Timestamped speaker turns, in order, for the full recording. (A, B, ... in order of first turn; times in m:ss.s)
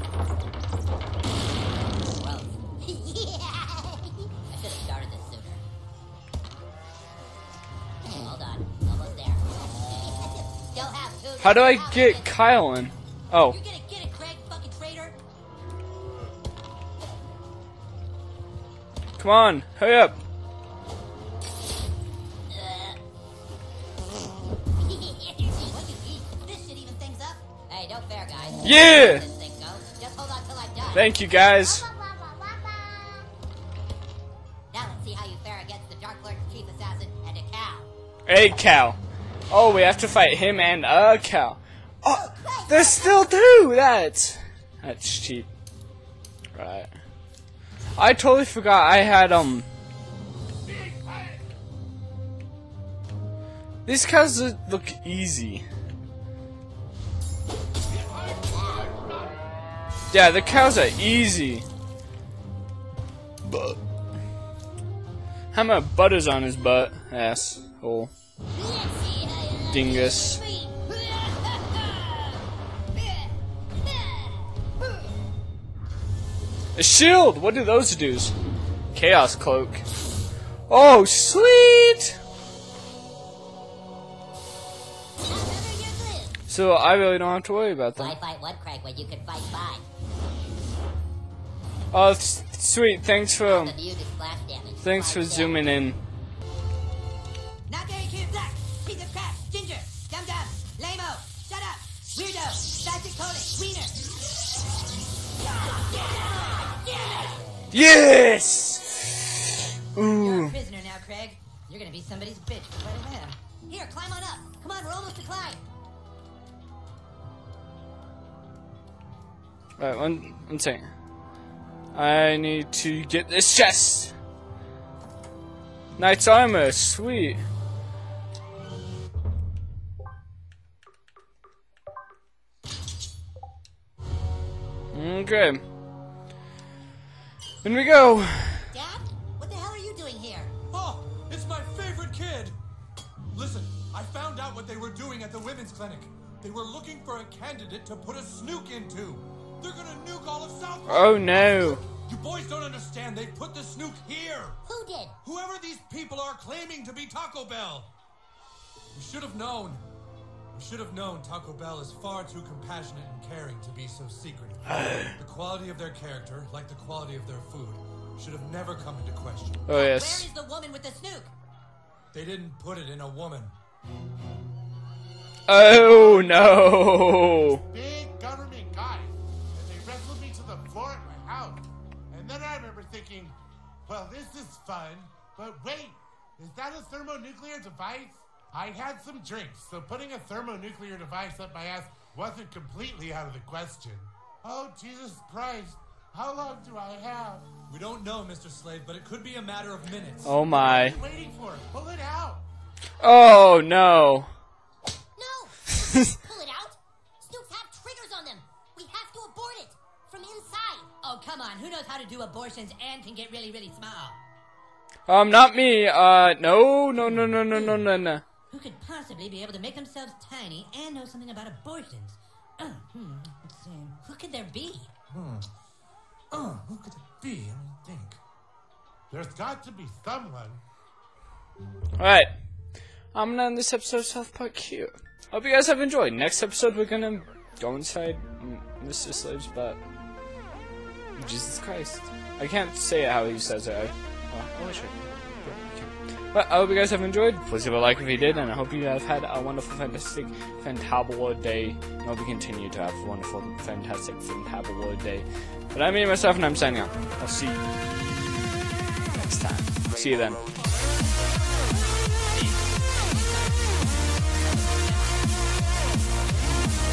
0:02.2-0:05.6 A
0:08.0-0:11.7 A
0:10.8-0:12.2 B
0:11.4-0:13.6 C
0:13.5-0:15.2 B
0:19.2-0:20.2 C
0:24.8-0:25.8 A
0:25.7-0:27.5 B
0:27.7-0:33.3 A
0:28.6-0:29.2 C
0:30.9-0:31.8 C
0:34.9-0:37.1 A
0:38.3-0:39.0 C
0:39.5-0:45.5 C
0:42.0-0:43.3 A
0:46.5-0:46.9 C
0:48.0-0:49.7 C
0:53.8-0:55.6 C
1:00.1-1:01.6 C
1:03.4-1:03.8 C
1:05.5-1:08.1 C
1:08.5-1:12.3 A
1:09.7-1:10.4 C
1:16.7-1:18.3 C
1:18.9-1:19.8 C
1:20.7-1:22.1 C
1:25.2-1:26.4 A
1:26.5-1:28.2 C
1:28.0-1:29.8 A
1:31.9-1:33.7 C
1:33.4-1:35.6 A
1:34.8-1:36.0 C
1:37.7-1:44.0 B
1:45.4-1:47.4 B
1:47.7-1:49.2 C
1:49.9-1:50.5 C
1:50.1-1:55.6 B
1:59.8-2:00.8 C
2:01.9-2:04.1 C
2:06.0-2:07.4 C
2:14.9-2:15.6 C
2:17.6-2:18.6 C
2:18.7-2:20.5 B
2:20.7-2:22.6 D
2:23.3-2:34.6 D
2:30.9-2:31.8 C
2:34.7-2:35.1 A
2:35.2-2:37.9 D
2:38.9-2:39.8 D
2:40.5-2:49.6 D
2:44.7-2:45.2 C
2:49.7-2:50.3 C
2:49.7-2:51.3 B
2:52.1-2:53.5 D
2:55.5-2:57.6 C
2:55.9-2:56.4 E
2:57.7-3:17.5 E
3:17.7-3:20.4 D
3:20.2-3:21.0 C
3:20.4-3:22.4 E
3:23.0-3:24.3 C
3:25.2-3:30.9 A
3:31.0-3:34.2 B
3:35.1-3:38.2 C
3:37.2-3:37.8 B
3:38.5-3:44.9 B
3:45.1-3:45.5 D
3:46.3-3:48.2 D
3:49.1-3:50.6 E
3:52.0-3:52.3 C
3:53.1-3:59.8 C
4:01.2-4:17.6 C
4:19.2-4:20.4 C
4:22.3-4:25.3 B